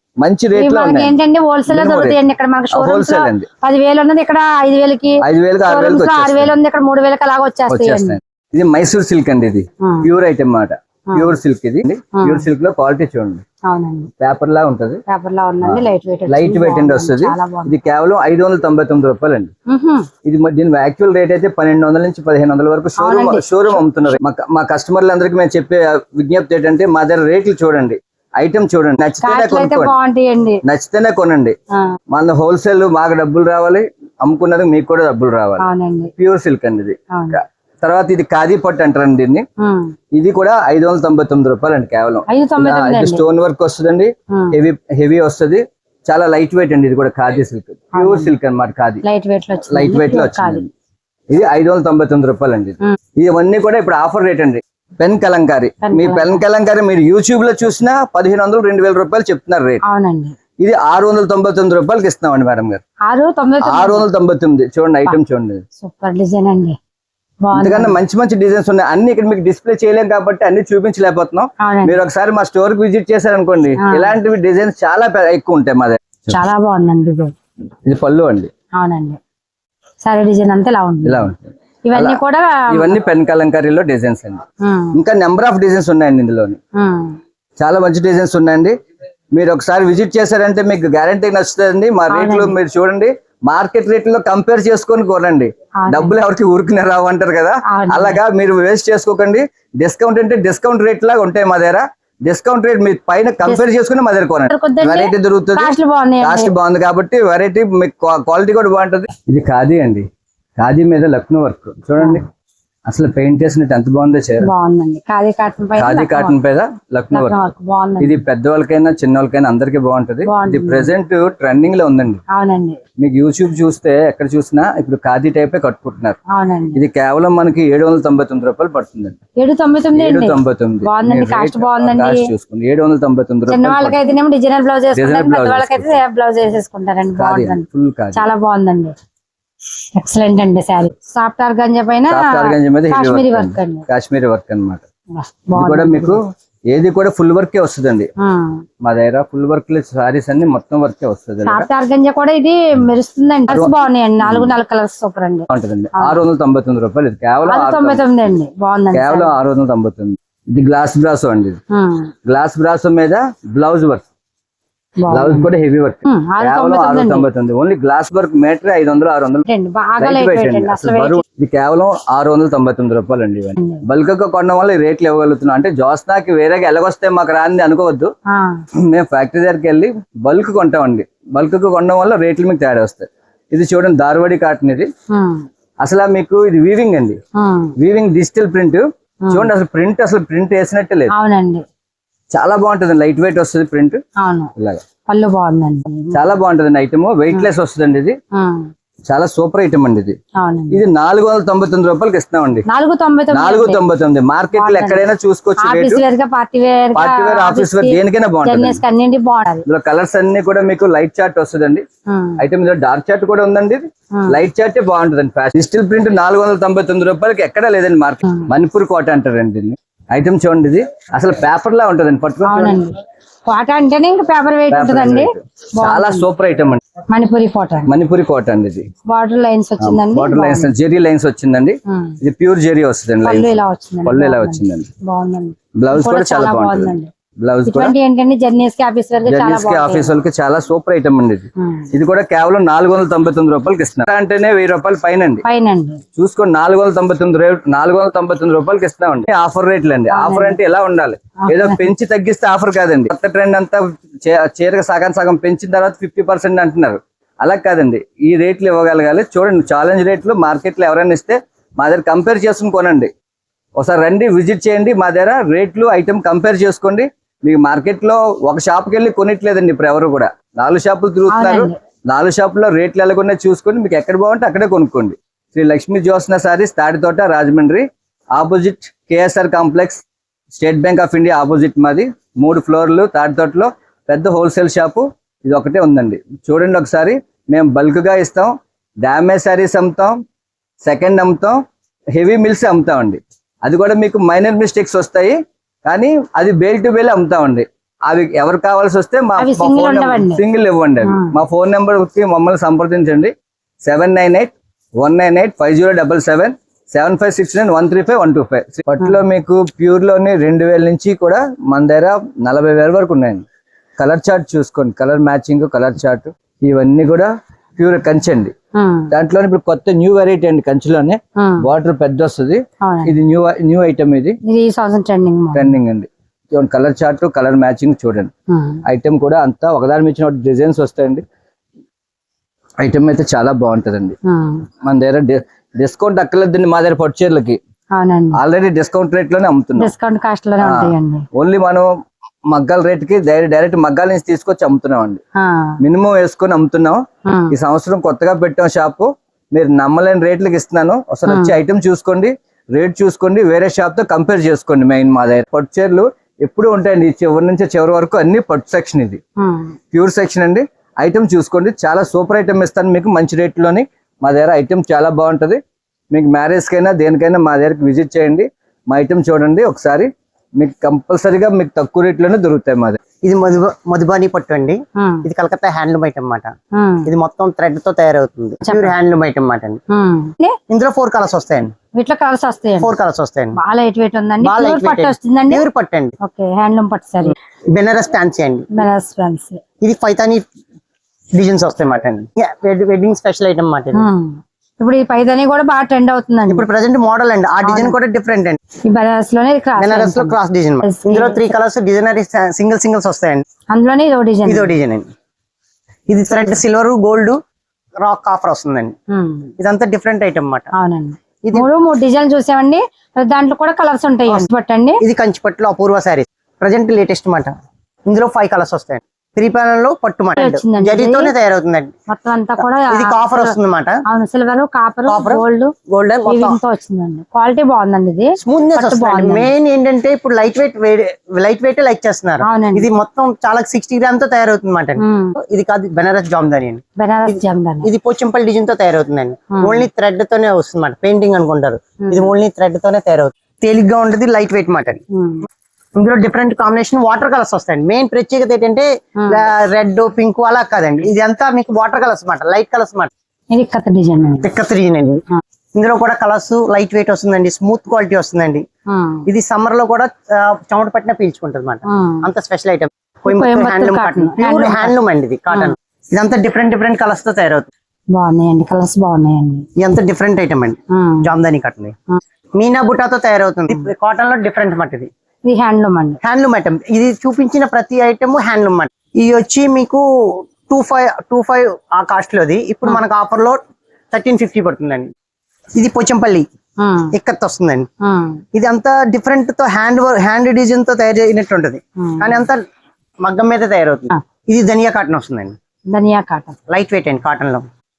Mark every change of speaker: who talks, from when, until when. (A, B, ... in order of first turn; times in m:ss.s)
0:00.2-0:01.1 A
0:00.5-0:08.2 B
0:01.7-0:02.2 A
0:02.7-0:03.5 A
0:05.2-0:06.5 A
0:07.7-0:13.4 A
0:12.2-0:12.4 B
0:13.6-0:14.1 B
0:14.2-0:15.0 A
0:15.1-0:17.7 B
0:15.6-0:19.5 A
0:19.7-0:20.1 B
0:20.2-0:30.0 A
0:23.0-0:24.2 B
0:29.2-0:30.6 B
0:30.6-0:31.5 A
0:32.1-0:35.6 A
0:35.6-0:36.1 B
0:36.2-0:39.4 A
0:37.1-0:37.4 B
0:39.6-0:39.9 B
0:40.1-0:49.0 A
0:42.3-0:43.2 B
0:47.9-0:48.3 B
0:49.0-0:50.6 B
0:49.7-0:50.7 A
0:51.3-0:59.8 A
0:55.8-0:56.4 B
0:59.8-1:00.3 B
1:00.6-1:02.8 A
1:03.0-1:04.0 B
1:03.6-1:05.6 A
1:05.8-1:06.8 B
1:07.4-1:07.9 B
1:07.5-1:16.4 A
1:11.6-1:12.0 B
1:13.8-1:14.1 B
1:16.3-1:17.3 B
1:17.8-1:18.5 A
1:18.8-1:19.2 B
1:20.0-1:21.3 B
1:21.0-1:24.4 A
1:21.8-1:23.0 B
1:24.6-1:25.0 B
1:24.9-1:26.6 A
1:26.8-1:27.2 B
1:27.6-1:28.7 A
1:29.3-1:50.1 A
1:32.1-1:32.5 B
1:35.8-1:36.1 B
1:37.7-1:38.2 B
1:44.5-1:46.5 B
1:50.6-1:52.2 A
1:52.9-1:54.5 A
1:54.4-1:56.4 B
1:55.8-1:57.4 A
1:57.1-1:58.2 B
1:58.0-2:02.2 A
2:00.2-2:00.9 B
2:02.3-2:02.8 B
2:03.0-2:06.2 A
2:06.3-2:06.8 B
2:06.7-2:09.2 A
2:09.4-2:12.3 B
2:09.9-2:14.0 A
2:13.5-2:18.9 B
2:14.9-2:16.0 A
2:17.2-2:18.2 A
2:19.9-2:23.8 B
2:22.1-2:24.8 A
2:25.1-2:26.2 B
2:25.6-2:26.2 A
2:26.7-2:28.1 A
2:28.2-2:28.6 B
2:28.8-2:31.7 A
2:31.4-2:36.2 B
2:33.5-2:34.5 A
2:35.5-2:38.3 A
2:37.5-2:39.3 B
2:38.9-2:41.6 A
2:41.7-2:42.1 B
2:42.2-2:44.0 A
2:45.0-2:45.5 B
2:45.1-2:49.4 A
2:46.0-2:47.3 B
2:49.4-2:51.2 B
2:50.0-2:58.1 A
2:53.6-2:53.8 B
2:58.8-3:04.9 A
3:05.1-3:05.4 B
3:05.8-3:07.2 A
3:07.4-3:07.7 B
3:07.8-3:11.1 A
3:09.2-3:09.5 B
3:11.1-3:11.6 B
3:12.3-3:14.0 A
3:14.2-3:14.5 B
3:14.6-3:14.8 A
3:15.1-3:16.2 B
3:16.1-3:18.2 A
3:18.3-3:18.7 B
3:19.1-3:20.2 A
3:20.4-3:20.8 B
3:20.7-3:22.6 A
3:22.7-3:23.8 B
3:23.3-3:26.0 A
3:24.5-3:25.0 B
3:25.6-3:29.6 B
3:26.9-3:28.8 A
3:29.6-3:31.8 A
3:32.1-3:32.4 B
3:32.4-3:42.8 A
3:42.4-3:42.9 B
3:43.4-3:46.2 B
3:44.7-3:46.8 A
3:47.1-3:47.9 B
3:47.9-3:48.9 A
3:49.0-3:50.7 B
3:49.8-3:54.9 A
3:51.9-3:52.1 B
3:53.2-3:57.1 B
3:55.8-3:57.9 A
3:57.6-4:00.1 B
3:59.3-4:05.4 A
4:01.6-4:01.9 B
4:05.4-4:06.0 B
4:06.2-4:23.1 A
4:10.1-4:10.6 B
4:11.4-4:11.8 B
4:23.8-4:40.0 A
4:31.3-4:31.8 B
4:40.5-4:50.2 A
4:50.8-4:51.6 A
4:52.1-5:03.3 A
4:59.4-5:00.4 B
5:01.0-5:01.3 B
5:03.8-5:13.4 A
5:14.0-5:18.5 A
5:18.7-5:19.1 B
5:19.1-5:24.4 A
5:21.4-5:21.6 B
5:22.8-5:23.1 B
5:24.4-5:25.8 B
5:25.5-5:28.3 A
5:28.5-5:28.8 B
5:28.8-5:31.2 A
5:32.8-5:34.2 A
5:34.2-5:34.6 B
5:34.8-5:37.6 A
5:37.9-5:38.4 B
5:38.3-5:39.9 A
5:39.8-5:41.2 B
5:40.6-5:41.9 A
5:42.5-5:45.2 A
5:45.4-5:45.7 B
5:45.8-5:59.2 A
5:47.2-5:47.5 B
5:51.3-5:51.5 B
5:59.4-5:59.7 B
5:59.9-6:05.6 A
6:06.1-6:13.0 A
6:13.2-6:16.5 C
6:15.0-6:15.2 B
6:16.7-6:17.1 B
6:17.0-6:19.8 C
6:18.6-6:18.9 B
6:19.9-6:20.6 B
6:20.7-6:21.7 C
6:21.9-6:22.9 B
6:22.8-6:23.6 C
6:23.5-6:25.6 B
6:24.4-6:26.2 C
6:26.2-6:27.4 B
6:27.7-6:28.6 C
6:28.7-6:29.6 B
6:29.8-6:30.4 C
6:31.3-6:34.1 C
6:33.9-6:36.6 B
6:36.5-6:38.6 C
6:37.6-6:37.9 B
6:38.8-6:41.5 B
6:39.8-6:43.4 C
6:43.7-6:44.7 B
6:44.4-6:45.1 C
6:46.1-6:47.4 C
6:48.0-6:48.9 C
6:49.1-6:49.5 B
6:49.6-6:50.7 C
6:50.7-6:55.0 B
6:51.4-6:51.7 C
6:55.0-6:57.5 C
6:58.0-7:01.9 C
7:00.4-7:01.3 B
7:02.1-7:03.5 B
7:02.9-7:04.0 C
7:04.1-7:05.7 B
7:05.1-7:06.6 C
7:06.2-7:09.5 B
7:08.4-7:25.0 C
7:12.4-7:12.9 B
7:15.0-7:15.4 B
7:17.0-7:17.9 B
7:19.5-7:19.8 B
7:22.0-7:22.3 B
7:25.1-7:25.4 B
7:26.0-7:33.1 C
7:29.2-7:29.4 B
7:33.5-7:34.5 B
7:34.4-7:35.2 C
7:35.7-7:38.6 C
7:38.9-7:39.3 B
7:39.3-7:47.7 C
7:41.9-7:42.3 B
7:43.2-7:44.9 B
7:48.1-7:49.6 B
7:49.8-7:51.9 C
7:50.9-7:51.3 B
7:52.5-7:55.1 C
7:55.4-7:56.2 B
7:56.2-8:03.6 C
8:04.1-8:05.1 C
8:05.7-8:06.5 C
8:06.8-8:07.1 B
8:07.1-8:07.9 C
8:08.0-8:08.4 B
8:08.5-8:12.6 C
8:12.0-8:12.4 B
8:13.2-8:15.5 C
8:15.9-8:16.6 B
8:16.7-8:17.7 C